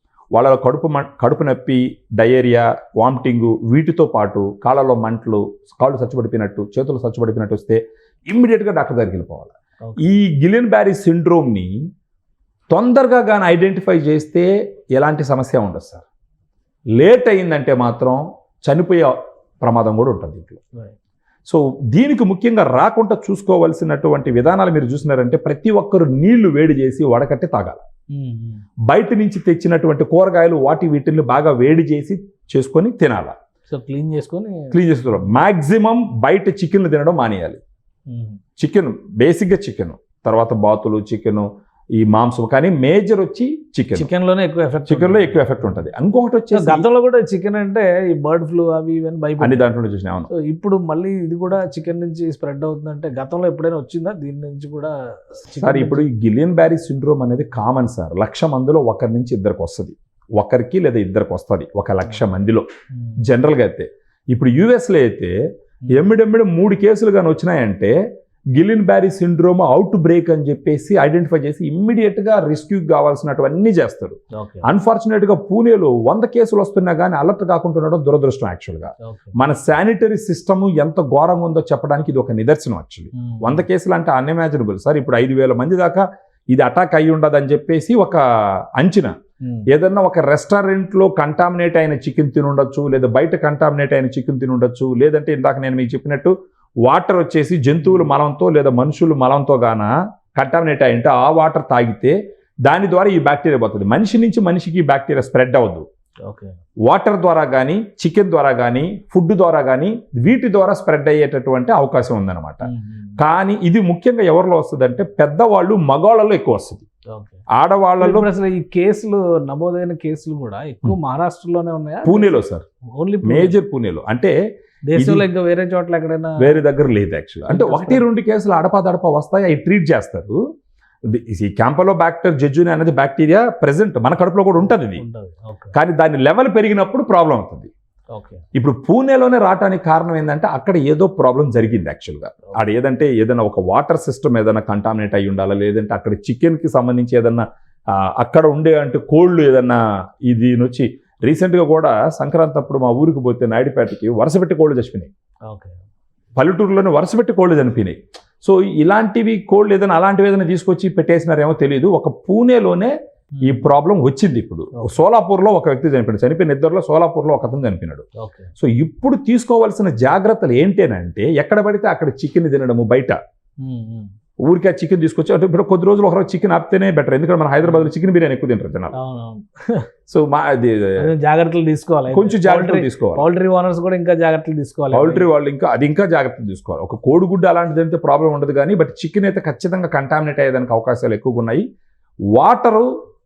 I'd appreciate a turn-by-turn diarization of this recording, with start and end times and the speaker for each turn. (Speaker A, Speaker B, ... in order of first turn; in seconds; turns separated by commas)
Speaker A: 0.3-11.7, Speaker A: 12.7-16.0, Speaker A: 17.0-20.6, Speaker A: 21.5-27.8, Speaker B: 28.1-28.6, Speaker A: 28.9-33.3, Speaker B: 33.7-35.4, Speaker A: 34.7-37.6, Speaker B: 38.1-38.4, Speaker A: 38.6-41.5, Speaker A: 42.0-44.1, Speaker B: 43.9-45.8, Speaker A: 44.9-46.9, Speaker B: 46.5-49.6, Speaker A: 49.4-50.3, Speaker B: 50.3-56.1, Speaker A: 55.6-62.6, Speaker A: 63.2-65.3, Speaker A: 65.9-67.9, Speaker A: 68.5-88.2, Speaker B: 74.3-74.7, Speaker B: 79.0-79.3, Speaker B: 83.2-83.6, Speaker A: 88.8-89.1, Speaker B: 89.4-89.7, Speaker A: 89.7-96.3, Speaker A: 96.8-105.8, Speaker B: 106.2-106.5, Speaker A: 106.9-112.7, Speaker B: 112.6-113.2, Speaker A: 113.2-116.8, Speaker B: 117.1-117.4, Speaker A: 117.5-118.3, Speaker B: 118.0-122.3, Speaker A: 122.0-122.6, Speaker B: 123.0-123.6, Speaker A: 123.2-124.3, Speaker B: 124.9-126.6, Speaker A: 124.9-125.3, Speaker A: 126.4-130.4, Speaker B: 127.5-128.1, Speaker A: 131.1-135.0, Speaker B: 134.6-135.8, Speaker A: 135.7-137.7, Speaker B: 138.1-138.4, Speaker A: 138.5-155.1, Speaker B: 155.5-155.8, Speaker A: 156.3-168.0, Speaker B: 163.3-163.7, Speaker B: 168.2-168.5, Speaker A: 168.6-173.2, Speaker B: 173.6-174.1, Speaker A: 174.4-178.9, Speaker B: 177.6-177.9, Speaker B: 178.9-179.9, Speaker A: 180.1-181.1, Speaker B: 181.0-185.3, Speaker A: 182.1-183.2, Speaker A: 184.9-191.6, Speaker A: 192.3-192.9